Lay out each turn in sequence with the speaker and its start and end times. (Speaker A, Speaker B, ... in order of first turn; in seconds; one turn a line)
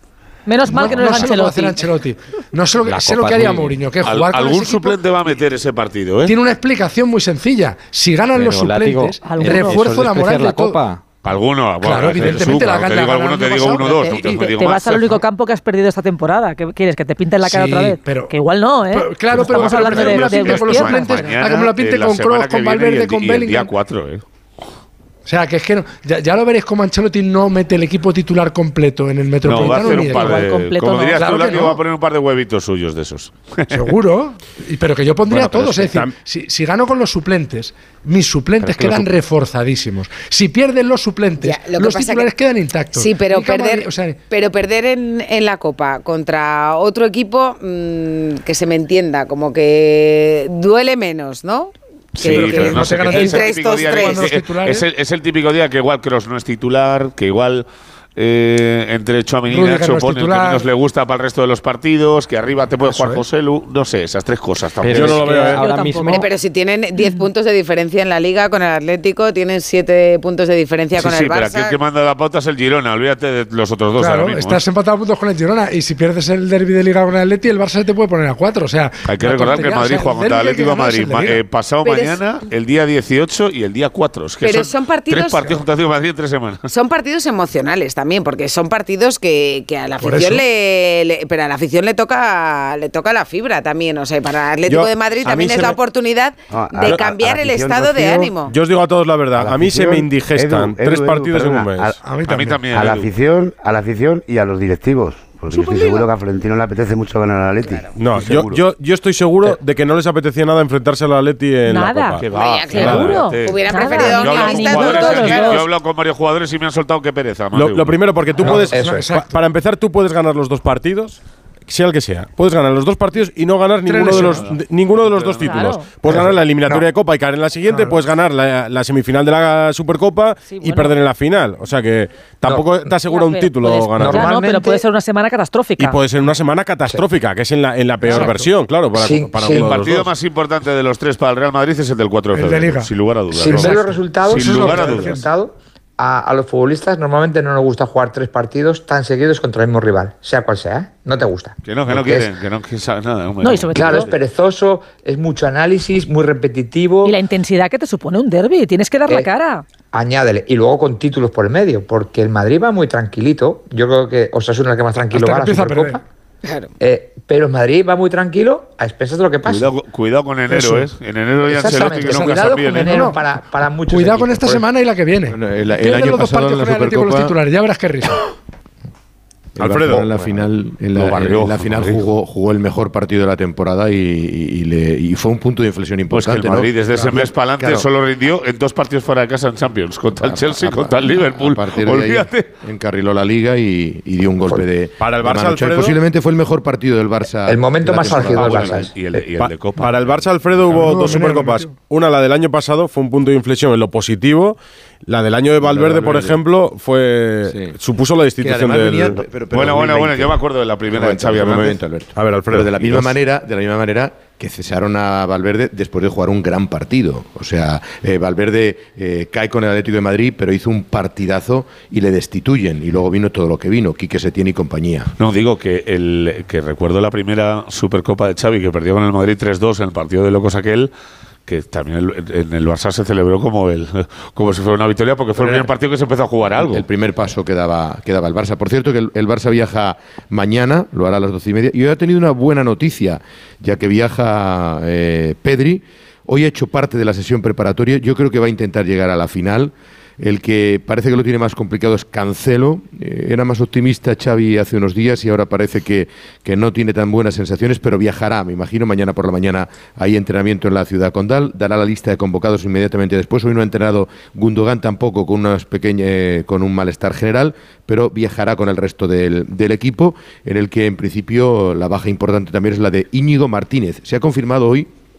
Speaker A: 0.5-1.8
Speaker B: 0.7-5.2
Speaker C: 2.9-3.8
Speaker D: 4.0-6.4
Speaker B: 6.2-10.8
Speaker C: 8.3-11.0
Speaker A: 9.2-9.8
Speaker D: 11.2-15.2
Speaker B: 11.8-14.5
Speaker C: 12.2-12.5
Speaker A: 14.3-21.3
Speaker B: 17.4-18.4
Speaker B: 18.9-23.7
Speaker D: 19.3-24.2
Speaker B: 25.3-31.8
Speaker D: 29.4-34.0
Speaker A: 29.5-31.6
Speaker B: 33.7-44.2
Speaker E: 35.3-36.1
Speaker C: 38.6-39.1
Speaker F: 41.4-42.3
Speaker F: 42.9-51.7
Speaker D: 52.1-65.4
Speaker F: 52.2-54.3
Speaker B: 52.2-54.9
Speaker B: 59.5-60.6
Speaker B: 62.9-63.2
Speaker C: 64.8-66.2
Speaker E: 64.9-65.6
Speaker A: 65.1-66.3
Speaker F: 66.1-71.8
Speaker D: 71.0-74.6
Speaker B: 74.0-81.4
Speaker D: 79.0-86.7
Speaker F: 81.8-82.2
Speaker F: 84.4-85.6
Speaker F: 86.7-98.5
Speaker B: 90.0-90.5
Speaker E: 94.7-95.8
Speaker G: 96.5-98.4
Speaker E: 98.5-102.0
Speaker G: 99.4-102.0
Speaker B: 102.0-102.8
Speaker D: 102.2-103.1
Speaker G: 102.7-107.9
Speaker E: 108.0-113.2
Speaker D: 108.0-108.6
Speaker A: 111.7-115.6
Speaker D: 112.3-118.0
Speaker F: 112.3-115.6
Speaker E: 117.5-134.3
Speaker B: 118.3-119.4
Speaker H: 118.4-119.0
Speaker B: 123.9-124.5
Speaker D: 124.2-125.8
Speaker A: 125.4-125.9
Speaker H: 126.1-126.8
Speaker B: 127.7-128.0
Speaker A: 130.5-131.0
Speaker A: 133.1-136.0
Speaker H: 133.8-134.8
Speaker E: 135.8-140.1
Speaker B: 138.1-138.5
Speaker H: 138.9-139.7
Speaker D: 139.5-145.2
Speaker B: 142.3-142.9
Speaker H: 143.3-152.3
Speaker B: 143.5-145.3
Speaker D: 151.7-154.2
Speaker A: 153.4-154.2
Speaker H: 153.7-157.2
Speaker A: 157.0-159.6
Speaker H: 159.9-166.0
Speaker B: 165.1-166.0
Speaker F: 166.4-166.7
Speaker H: 166.8-169.7
Speaker D: 169.4-173.1
Speaker B: 170.6-170.9
Speaker H: 171.5-174.7
Speaker B: 172.7-173.2
Speaker B: 173.9-178.2
Speaker I: 175.3-177.3
Speaker I: 179.6-187.8
Speaker E: 179.6-180.2
Speaker D: 180.9-182.0
Speaker D: 186.1-192.5
Speaker I: 190.2-198.9
Speaker E: 195.0-196.0
Speaker H: 197.5-199.3
Speaker D: 198.3-200.4
Speaker E: 199.8-209.2
Speaker B: 200.7-201.7
Speaker I: 205.6-206.4
Speaker I: 207.5-207.8
Speaker I: 208.4-225.1
Speaker D: 209.5-211.8
Speaker E: 212.1-213.2
Speaker D: 225.2-230.9
Speaker D: 231.5-236.8
Speaker I: 235.4-235.7
Speaker I: 236.6-274.9